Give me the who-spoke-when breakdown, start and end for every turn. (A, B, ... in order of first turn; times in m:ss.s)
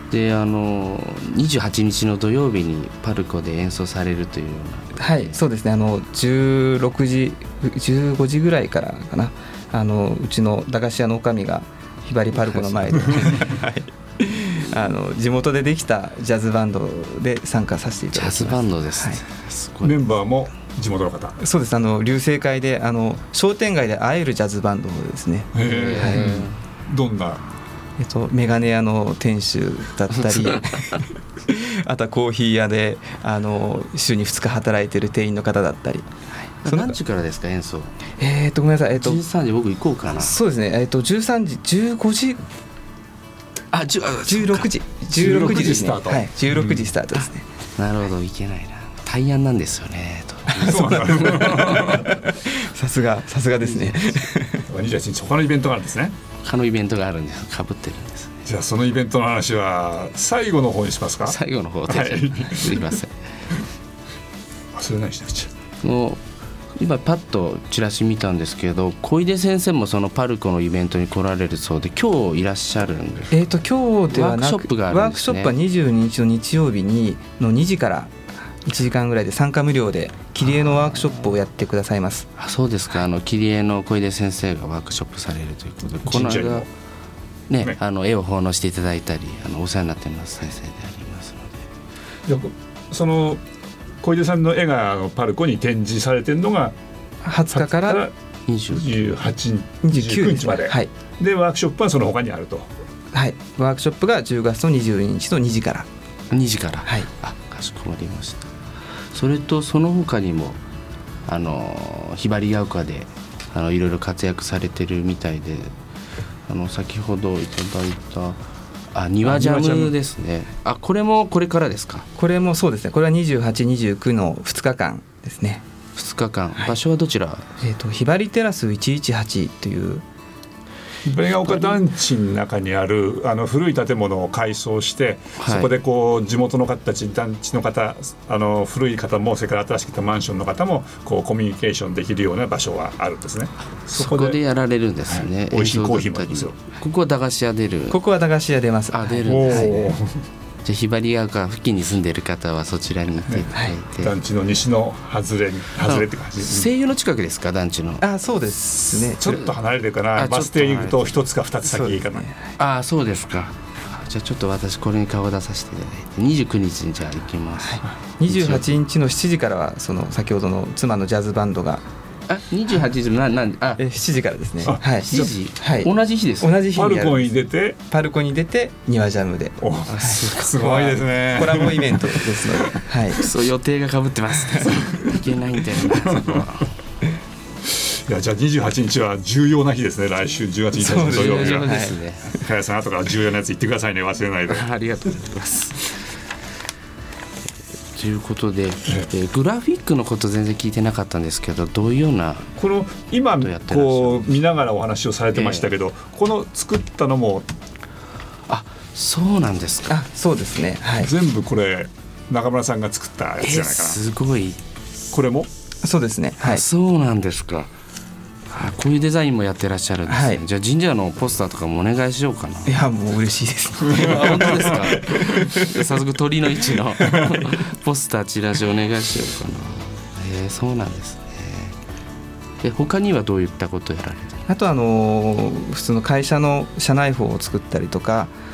0:00.1-0:05.4 A
0:05.0-0:19.2 B
0:12.5-0:13.4 A
0:18.1-0:20.0 A
0:19.8-0:21.4 C
0:21.4-0:26.3 B
0:25.5-0:27.4 C
0:25.6-0:26.6 A
0:28.0-0:36.1 B
0:30.4-0:30.8 A
0:36.6-0:38.0 A
0:36.7-0:37.0 B
0:38.2-0:39.2 B
0:39.0-0:40.4 A
0:40.2-0:42.4 B
0:43.7-0:44.7 A
0:44.3-0:47.4 B
0:45.1-0:46.9 C
0:47.8-0:52.1 A
0:50.5-0:54.7 B
0:50.6-0:52.2 C
0:54.7-0:56.2 C
0:56.4-0:58.4 A
0:58.5-1:03.0 C
1:01.2-1:03.1 A
1:04.7-1:05.5 C
1:05.8-1:06.2 A
1:06.8-1:13.5 A
1:13.3-1:18.1 B
1:14.1-1:15.5 A
1:18.6-1:22.3 B
1:22.4-1:26.7 A
1:26.0-1:26.7 C
1:27.5-1:31.6 A
1:32.3-1:33.4 C
1:34.0-1:36.8 C
1:37.2-1:38.1 B
1:37.5-1:38.1 C
1:38.5-1:39.0 A
1:38.7-1:42.7 C
1:39.8-1:40.9 B
1:43.1-1:45.9 B
1:46.3-1:48.5 A
1:49.1-1:50.6 A
1:51.3-1:55.7 A
1:56.5-2:02.1 A
1:59.3-1:59.9 B
2:02.2-2:05.6 B
2:06.0-2:07.5 A
2:07.6-2:10.0 B
2:11.0-2:24.4 C
2:15.4-2:15.7 A
2:23.9-2:28.0 A
2:25.1-2:26.6 C
2:27.9-2:29.9 B
2:28.9-2:29.9 A
2:29.2-2:30.2 C
2:30.6-2:34.2 A
2:33.3-2:36.7 C
2:35.9-2:38.1 A
2:38.0-2:39.4 B
2:39.2-2:42.3 C
2:40.2-2:41.2 A
2:41.7-2:42.3 B
2:42.6-2:48.8 A
2:47.6-2:51.8 B
2:52.3-2:53.8 A
2:53.8-2:57.3 B
2:54.6-2:55.3 C
2:55.0-2:56.6 A
2:56.7-2:57.8 C
2:57.9-3:03.3 B
2:59.6-3:02.7 C
2:59.9-3:00.7 A
3:03.1-3:06.7 A
3:05.9-3:06.5 C
3:07.7-3:14.7 C
3:10.8-3:12.0 B
3:10.8-3:12.4 A
3:14.5-3:16.0 A
3:17.9-3:22.5 A
3:22.6-3:27.5 C
3:23.4-3:24.3 A
3:25.4-3:25.7 A
3:28.5-3:30.0 A
3:29.9-3:31.1 B
3:31.0-3:34.0 C
3:33.4-3:34.6 A
3:35.1-3:35.5 C
3:35.8-3:36.6 B
3:36.4-3:37.7 A
3:38.5-3:42.8 A
3:40.1-3:40.4 B
3:42.7-3:45.6 B
3:43.8-3:45.3 C
3:43.9-3:51.8 A
3:52.6-3:54.4 A
3:54.5-3:58.3 B